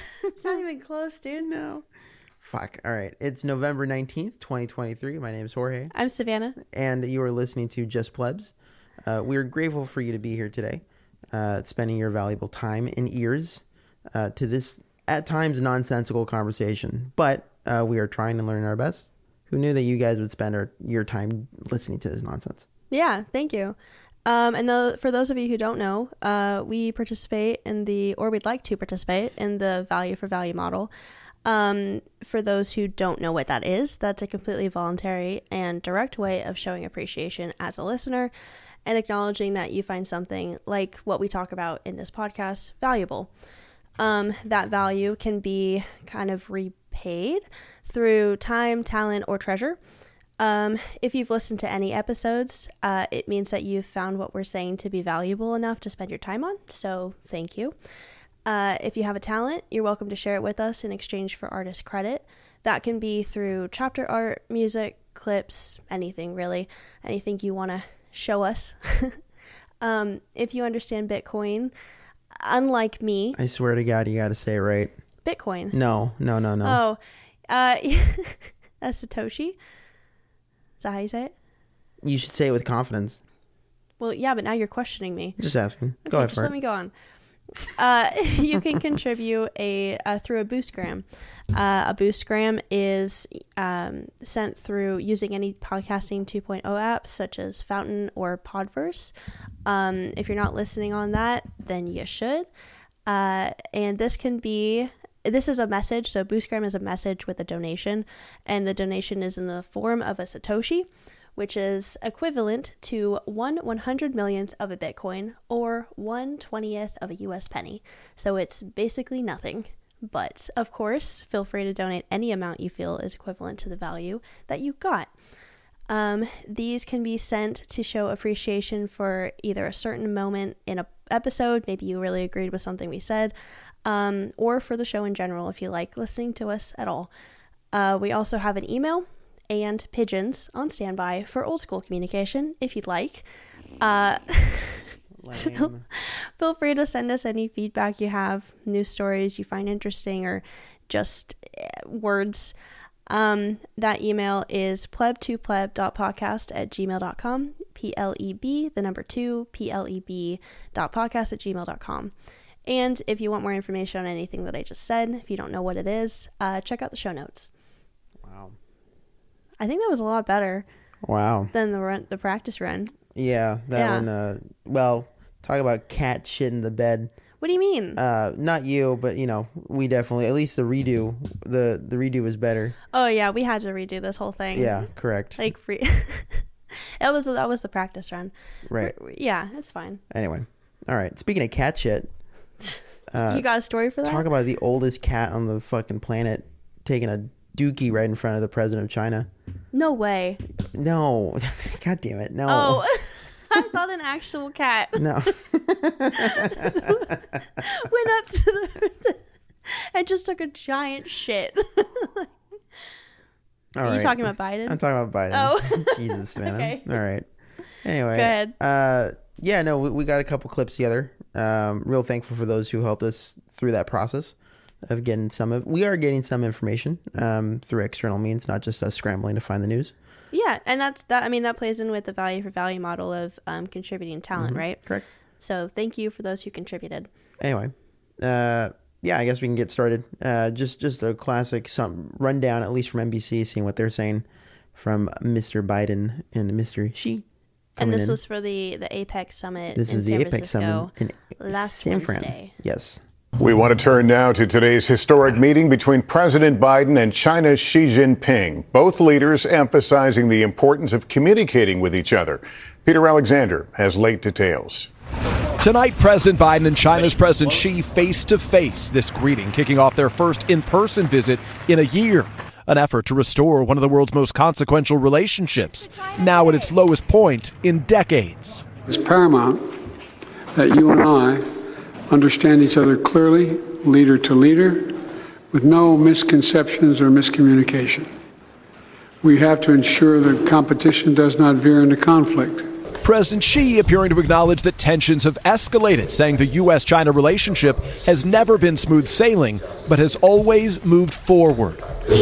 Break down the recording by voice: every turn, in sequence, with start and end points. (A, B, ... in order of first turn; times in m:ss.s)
0:00.4-0:01.5 A
0:01.4-0:01.8 B
0:02.4-0:05.9 B
0:05.9-0:06.6 A
0:06.6-0:22.7 B
0:22.9-0:30.9 A
0:31.4-0:38.3 A
0:38.8-0:43.3 A
0:44.0-0:49.8 A
0:50.4-0:57.7 A
0:58.4-1:09.2 A
1:09.8-1:11.7 A
1:12.4-1:13.4 A
1:13.3-1:14.9 B
1:15.2-1:15.8 A
1:15.7-1:16.8 B
1:16.6-1:17.0 A
1:17.5-1:19.6 A
1:20.8-1:21.3 A
1:22.0-1:23.2 B
1:24.0-1:25.4 A
1:25.4-1:26.5 B
1:26.1-1:26.9 A
1:27.8-1:39.1 A
1:39.6-1:42.5 A
1:43.0-2:05.1 A
2:05.9-2:13.3 A
2:13.8-2:17.1 A
2:17.7-2:23.2 A
2:23.8-2:24.8 A
2:25.2-2:25.8 B
2:25.4-2:32.5 A
2:33.1-2:42.1 A
2:42.6-2:47.5 A
2:48.2-2:48.5 B
2:49.6-2:50.6 A
2:51.0-2:51.5 B
2:51.5-2:52.9 A
2:53.1-2:57.1 B
2:53.7-2:54.1 A
2:57.4-2:58.0 A
2:58.0-3:02.8 B
3:02.9-3:04.8 A
3:04.5-3:05.4 B
3:05.4-3:06.4 A
3:07.0-3:10.0 A
3:08.7-3:08.9 B
3:10.1-3:12.1 B
3:13.1-3:13.4 B
3:13.3-3:14.2 A
3:14.0-3:19.3 B
3:19.7-3:20.4 A
3:20.7-3:22.8 B
3:22.5-3:25.0 A
3:25.0-3:27.2 B
3:26.2-3:27.1 A
3:27.6-3:32.3 A
3:33.8-3:37.3 B
3:33.8-3:34.8 A
3:35.3-3:36.9 A
3:37.8-3:49.9 B
3:38.1-3:38.5 A
3:50.3-3:54.8 A
3:54.4-3:55.0 B
3:55.4-3:57.1 A
3:57.4-4:07.2 B
4:07.8-4:08.2 B
4:07.8-4:12.5 A
4:09.7-4:13.0 B
4:13.4-4:24.9 C
4:25.6-4:38.7 D
4:38.8-4:39.7 E
4:40.5-4:41.5 E
4:42.1-4:45.0 E
4:45.5-4:48.1 E
4:49.2-4:52.7 E
4:53.0-5:01.8 D